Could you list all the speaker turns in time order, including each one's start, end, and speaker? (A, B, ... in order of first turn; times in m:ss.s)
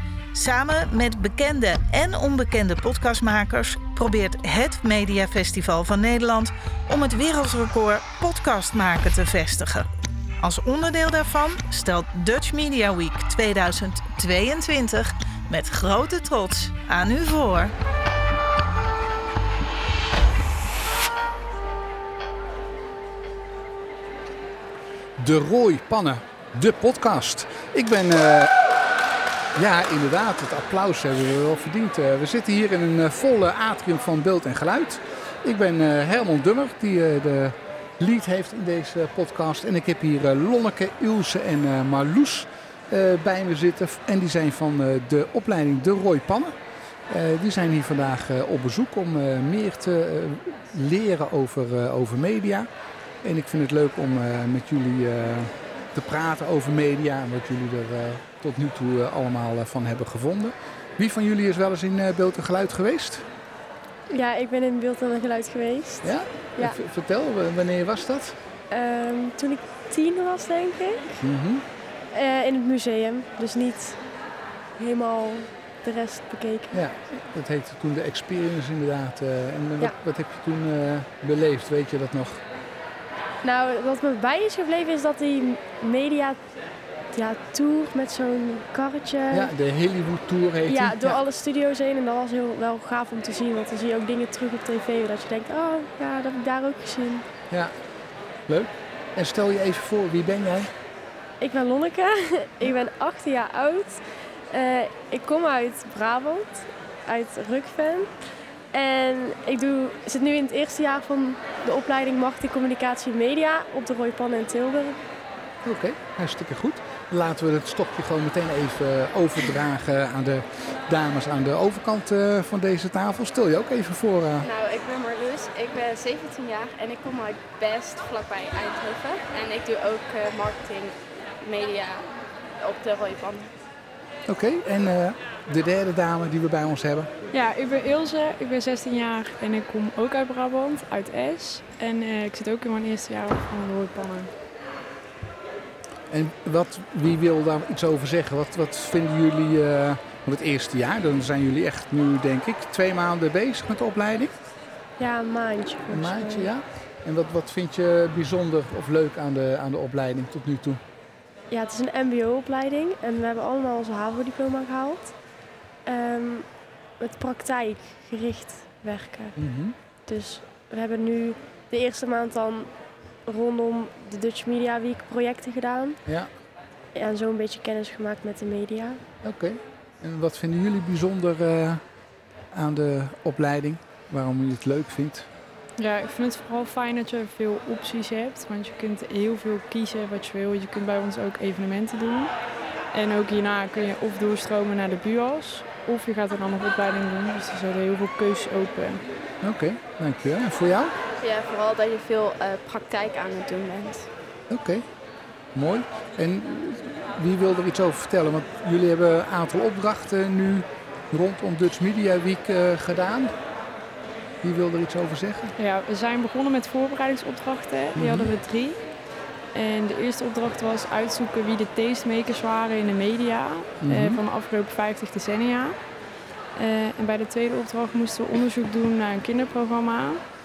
0:00.3-0:09.9 A
0:10.4-0:17.7 A
0:25.2-0:28.5 B
0:29.5-0:46.5 B
0:47.1-0:52.7 B
0:53.2-1:03.3 B
1:04.1-1:06.8 C
1:06.0-1:08.4 B
1:08.7-1:11.2 C
1:11.2-1:11.6 B
1:12.1-1:14.0 C
1:14.8-1:16.8 C
1:16.7-1:22.4 B
1:23.4-1:26.4 C
1:27.1-1:29.5 C
1:29.3-1:31.2 B
1:30.7-1:37.2 C
1:38.5-1:40.7 B
1:41.4-1:48.1 C
1:48.7-1:55.0 C
1:55.6-2:04.5 B
2:04.4-2:12.1 D
2:12.6-2:13.5 D
2:14.3-2:17.1 B
2:17.3-2:24.3 E
2:26.1-2:34.3 B
2:35.0-2:36.5 C
2:35.9-2:40.8 B
2:41.5-2:45.1 C
2:45.8-2:46.5 C
2:47.0-2:49.4 C
2:49.4-2:49.7 B
2:50.1-2:52.7 C
2:53.2-2:56.0 C
2:56.0-2:56.3 B
2:56.9-2:59.0 C
2:59.2-3:01.8 B
3:02.5-3:05.3 B
3:05.8-3:12.3 E
3:12.9-3:19.0 E
3:19.4-3:20.9 B
3:21.2-3:24.1 D
3:24.5-3:24.8 B
3:25.5-3:33.3 B
3:34.4-3:35.5 B
3:35.6-3:38.8 E
3:37.9-3:38.3 B
3:39.5-3:45.8 E
3:43.8-3:44.2 B
3:46.6-3:50.2 E